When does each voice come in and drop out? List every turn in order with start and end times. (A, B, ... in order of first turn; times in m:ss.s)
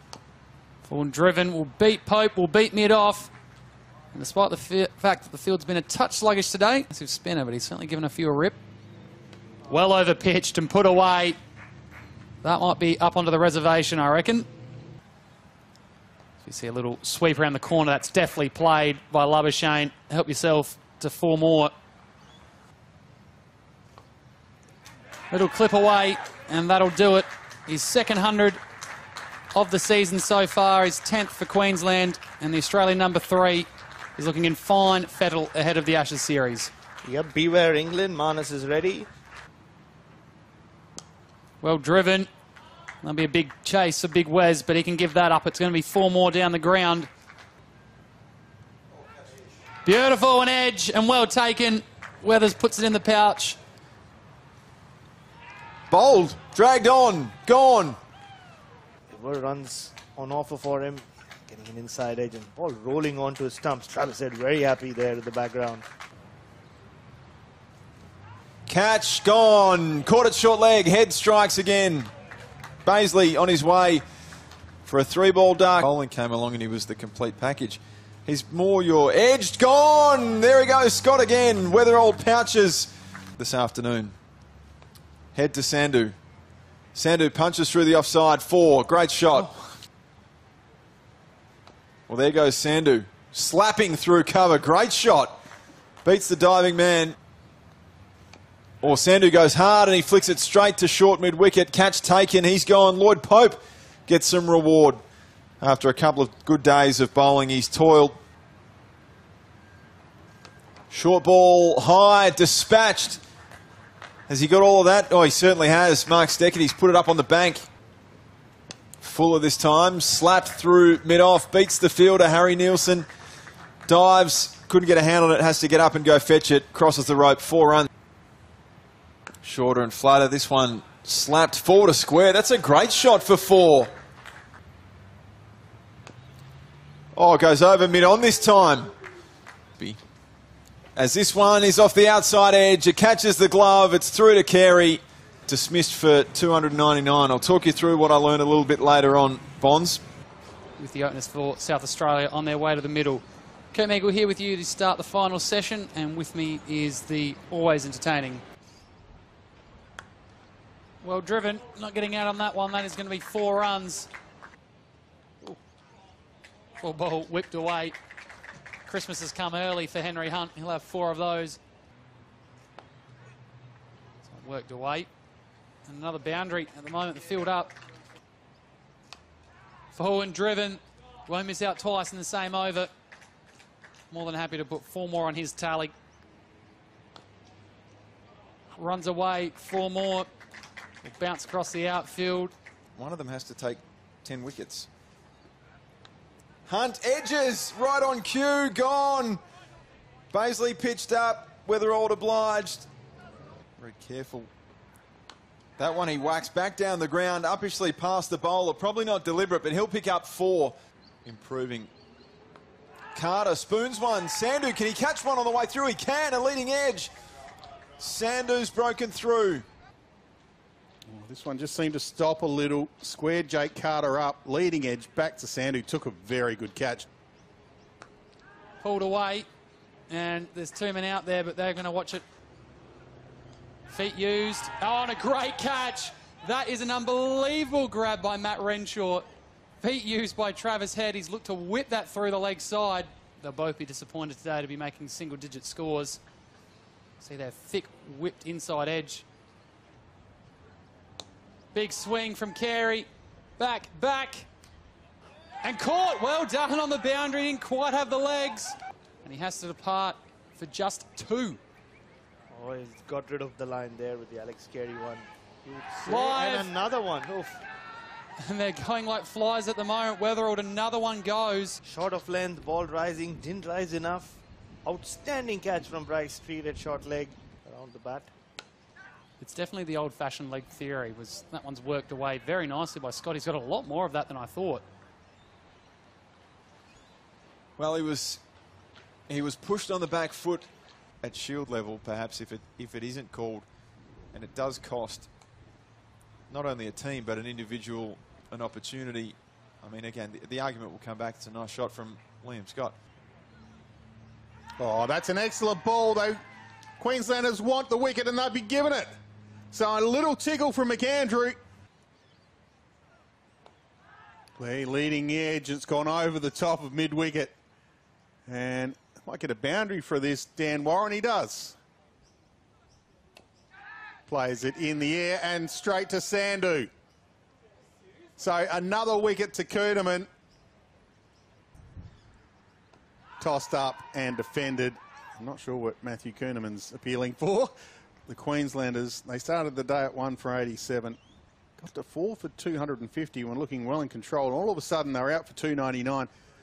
0:00.8-0:03.3 A
0:04.1-0:08.6 A
0:09.7-0:11.4 A
0:12.4-0:14.5 A
0:16.4-0:21.7 A
0:25.3-0:28.6 A
0:29.5-0:36.7 A
0:37.0-0:39.1 B
0:41.6-0:42.3 A
0:43.0-0:47.1 A
0:49.8-0:53.6 A
0:55.9-0:58.0 C
0:59.1-1:05.8 B
1:08.7-1:12.1 C
1:12.8-1:14.0 C
1:14.9-1:24.2 C
1:25.3-1:26.2 C
1:26.9-1:29.5 C
1:32.1-1:35.4 C
1:36.0-1:37.2 C
1:38.8-1:45.0 C
1:45.6-1:48.2 C
1:50.9-1:53.2 C
1:54.3-1:57.7 C
1:59.0-2:03.1 C
2:03.9-2:07.9 C
2:09.4-2:13.9 C
2:17.1-2:18.9 C
2:21.0-2:30.0 C
2:30.8-2:38.4 A
2:41.0-2:44.1 A
2:46.8-2:48.0 A
2:48.9-2:51.6 A
2:54.2-2:55.1 A
2:55.9-2:57.8 A
2:59.9-3:02.9 A
3:04.1-3:05.9 A
3:08.8-3:10.3 A
3:11.0-3:12.5 A
3:13.0-3:14.9 C
3:16.7-3:19.4 C
3:20.3-3:22.9 C
3:23.8-3:24.5 C
3:25.8-3:31.9 C
3:33.1-3:37.1 C
3:38.0-3:39.7 C
3:41.1-3:47.1 D
3:48.8-3:49.5 A
3:50.1-3:52.2 A
3:53.9-3:59.2 A
3:59.8-4:06.2 A
4:07.2-4:09.2 A
4:11.7-4:13.1 A
4:13.6-4:14.5 A
4:15.6-4:21.6 A
4:22.5-4:27.6 B
4:26.0-4:26.7 A
4:28.4-4:31.8 A
4:31.8-4:38.3 B
4:39.4-4:44.8 A
4:47.8-4:48.4 C
4:49.3-4:50.7 C
4:51.2-4:53.7 C
4:54.3-4:55.3 C
4:56.5-5:03.0 C
5:04.8-5:06.4 D
5:07.0-5:09.1 D
5:09.7-5:11.6 D
5:14.6-5:17.5 D
5:18.5-5:21.8 D
5:24.3-5:26.9 D
5:28.4-5:30.3 D
5:33.4-5:37.7 D
5:38.3-5:41.2 D
5:41.8-5:46.3 D